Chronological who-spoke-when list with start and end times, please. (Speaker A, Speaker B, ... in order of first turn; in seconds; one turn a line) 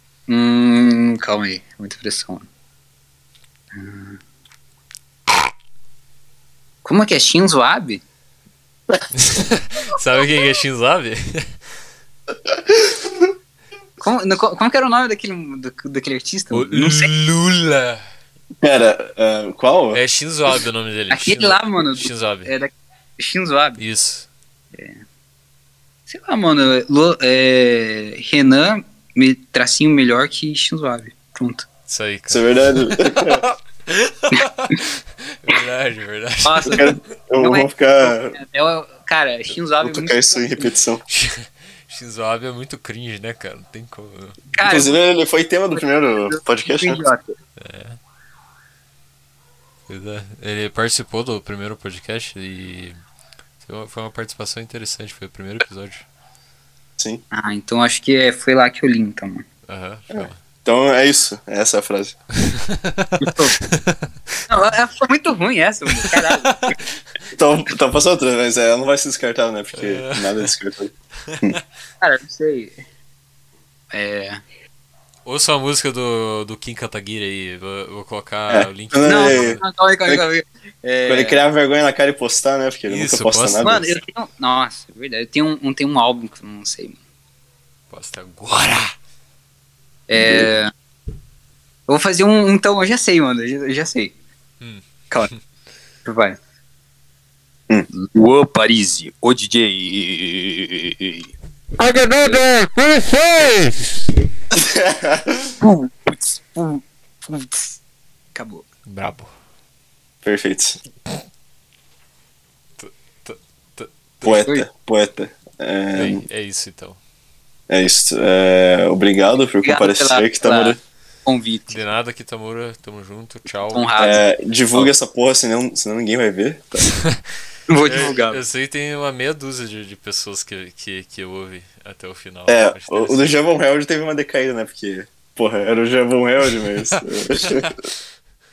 Speaker A: 0.3-2.5
Speaker A: 3.7-4.2
Speaker A: 6.8-8.0
Speaker B: 9.1-11.5
Speaker C: 12.5-13.3
Speaker A: 14.0-17.1
Speaker B: 16.5-18.0
Speaker C: 18.6-20.0
Speaker B: 19.9-22.5
Speaker A: 21.1-23.8
Speaker B: 23.8-24.3
Speaker A: 24.8-25.0
Speaker A: 26.1-31.7
Speaker B: 31.9-36.9
Speaker C: 32.3-33.4
Speaker A: 36.4-40.7
Speaker C: 36.7-38.4
Speaker C: 39.8-41.0
Speaker B: 41.1-44.5
Speaker A: 44.5-45.0
Speaker C: 44.6-47.1
Speaker A: 45.8-47.3
Speaker B: 47.6-48.0
Speaker B: 49.9-53.0
Speaker B: 53.6-56.1
Speaker A: 57.3-59.5
Speaker B: 59.7-60.4
Speaker C: 60.1-62.2
Speaker B: 62.4-64.0
Speaker A: 63.2-63.6
Speaker A: 64.5-66.8
Speaker B: 66.0-66.6
Speaker C: 67.3-71.6
Speaker B: 69.8-70.5
Speaker B: 71.3-71.6
Speaker A: 72.0-72.8
Speaker A: 73.9-74.4
Speaker B: 75.2-79.6
Speaker C: 78.5-80.2
Speaker A: 79.0-81.4
Speaker C: 81.1-83.9
Speaker B: 82.9-83.9
Speaker A: 83.6-87.0
Speaker B: 87.9-88.9
Speaker A: 90.1-90.7
Speaker C: 90.1-90.5
Speaker A: 91.9-94.1
Speaker B: 94.6-95.4
Speaker A: 96.0-96.4
Speaker A: 97.9-101.2
Speaker A: 101.9-103.5
Speaker C: 104.5-105.5
Speaker A: 105.6-107.8
Speaker A: 108.3-108.7
Speaker B: 108.9-109.3
Speaker C: 110.2-110.8
Speaker B: 112.8-114.5
Speaker C: 114.2-116.2
Speaker B: 116.0-117.0
Speaker C: 117.7-120.8
Speaker A: 119.6-121.9
Speaker B: 121.7-124.2
Speaker A: 123.7-124.2
Speaker C: 124.0-126.9
Speaker A: 127.7-128.4
Speaker B: 127.8-133.4
Speaker C: 132.5-137.7
Speaker B: 136.8-137.9